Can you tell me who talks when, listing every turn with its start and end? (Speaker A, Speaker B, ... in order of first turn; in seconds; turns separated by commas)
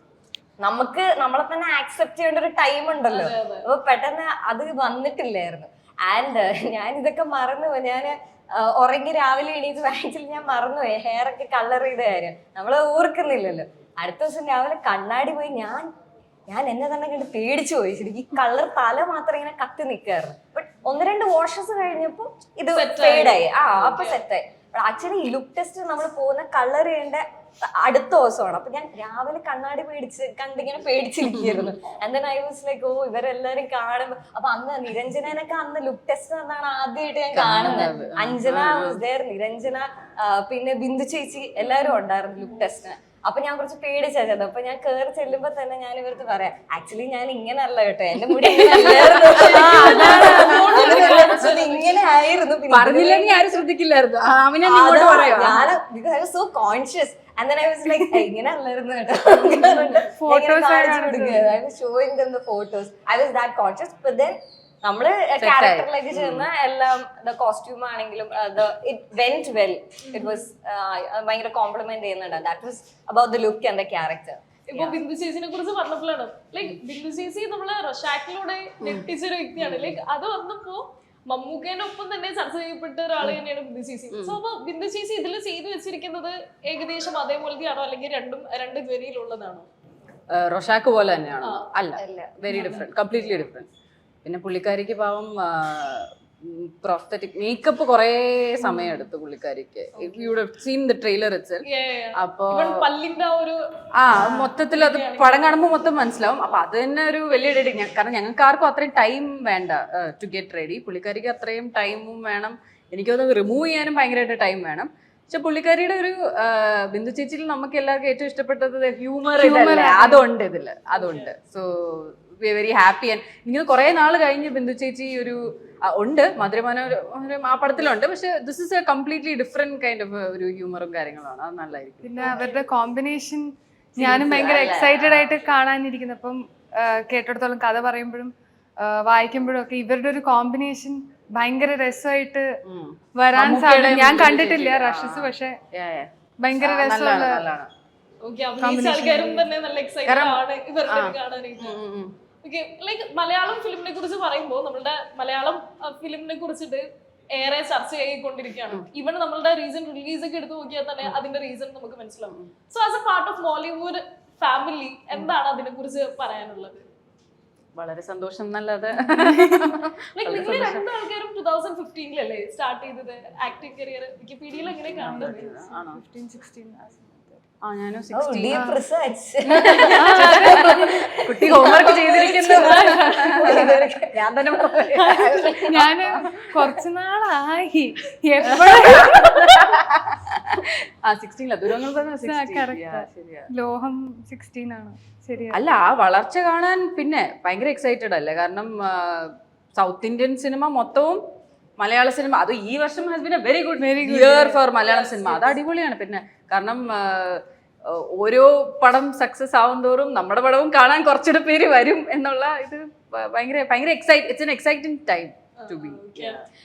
Speaker A: 0.6-15.9, Speaker B: 3.1-3.7, Speaker A: 16.5-53.5, Speaker B: 22.7-24.2, Speaker C: 31.3-31.8, Speaker C: 37.3-39.0, Speaker C: 48.3-51.3, Speaker B: 49.0-51.9, Speaker C: 52.7-55.7, Speaker A: 54.6-74.9, Speaker D: 60.2-61.5, Speaker C: 65.4-66.5, Speaker B: 70.0-70.4, Speaker B: 74.7-89.7, Speaker C: 79.7-79.9, Speaker C: 84.1-84.4, Speaker C: 90.3-93.7, Speaker A: 92.0-92.5, Speaker B: 92.5-92.9, Speaker C: 94.2-101.7, Speaker B: 100.0-100.4, Speaker B: 101.7-105.4, Speaker C: 102.2-102.9, Speaker C: 104.0-132.4, Speaker D: 119.4-120.2, Speaker B: 120.9-121.3, Speaker D: 132.0-142.6, Speaker B: 132.2-132.6, Speaker A: 134.0-135.2, Speaker C: 142.7-147.7, Speaker D: 143.2-145.6, Speaker D: 146.4-147.4, Speaker B: 148.2-151.8, Speaker D: 148.6-149.5, Speaker D: 150.1-150.4, Speaker C: 150.9-152.2, Speaker B: 152.4-166.8, Speaker C: 167.8-170.8, Speaker D: 169.0-169.5, Speaker B: 170.2-175.5, Speaker C: 174.9-176.0, Speaker D: 175.0-177.4, Speaker C: 177.6-178.6, Speaker A: 178.1-184.2, Speaker D: 178.5-178.8, Speaker C: 179.5-186.8, Speaker D: 179.8-180.8, Speaker B: 181.9-183.6, Speaker B: 185.0-185.7, Speaker D: 185.7-189.8, Speaker C: 188.4-193.5, Speaker D: 192.2-195.6, Speaker C: 195.5-201.2, Speaker C: 201.8-216.4, Speaker D: 203.8-204.6, Speaker B: 204.8-205.6, Speaker B: 215.6-216.4